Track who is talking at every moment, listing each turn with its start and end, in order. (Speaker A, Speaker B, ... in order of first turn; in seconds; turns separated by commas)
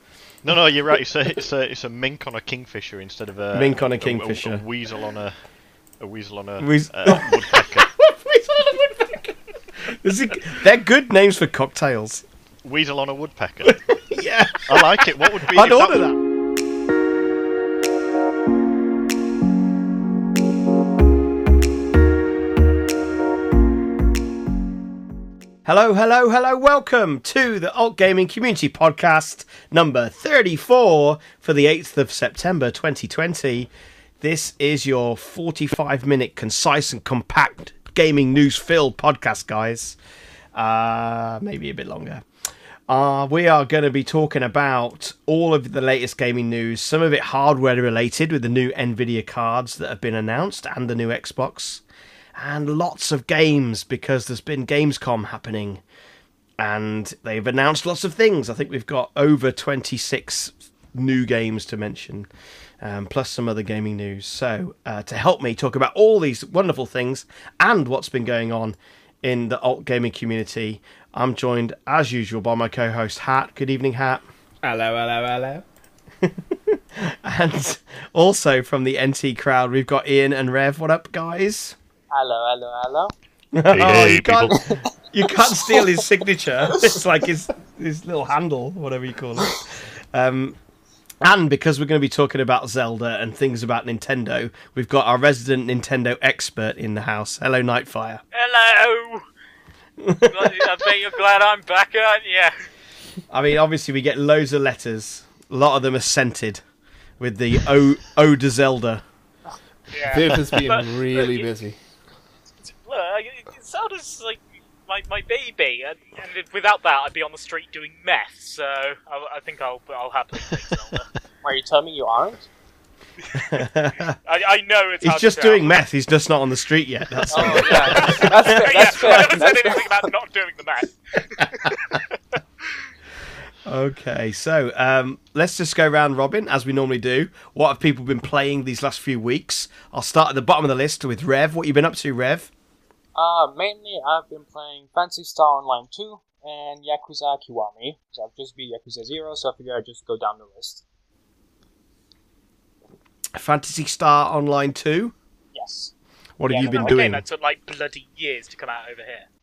Speaker A: 0.4-5.4, Speaker B: 3.5-4.6, Speaker A: 6.0-7.9, Speaker B: 6.6-12.2, Speaker A: 12.6-13.8, Speaker B: 13.6-16.2, Speaker A: 14.6-16.1, Speaker B: 25.6-33.7, Speaker B: 34.2-40.0, Speaker B: 40.5-42.2, Speaker B: 42.9-51.8, Speaker B: 52.4-55.8, Speaker B: 56.6-62.3, Speaker B: 62.8-74.2, Speaker C: 74.6-75.6, Speaker B: 76.2-81.8, Speaker D: 82.1-83.1, Speaker B: 83.5-90.6, Speaker A: 83.7-84.6, Speaker B: 91.2-98.2, Speaker E: 98.3-99.2, Speaker B: 100.0-100.7, Speaker E: 100.2-102.7, Speaker B: 103.3-106.6, Speaker B: 107.2-109.0, Speaker E: 109.9-111.5, Speaker C: 110.1-111.8, Speaker E: 112.6-121.1, Speaker D: 121.4-122.5, Speaker B: 123.3-124.2, Speaker E: 124.2-125.7, Speaker B: 125.0-129.3, Speaker D: 127.3-130.1, Speaker E: 127.3-132.1, Speaker B: 133.7-142.5, Speaker D: 143.1-150.8, Speaker B: 153.3-155.1, Speaker D: 155.5-155.9, Speaker B: 156.4-157.2, Speaker D: 156.4-157.0, Speaker E: 156.6-159.2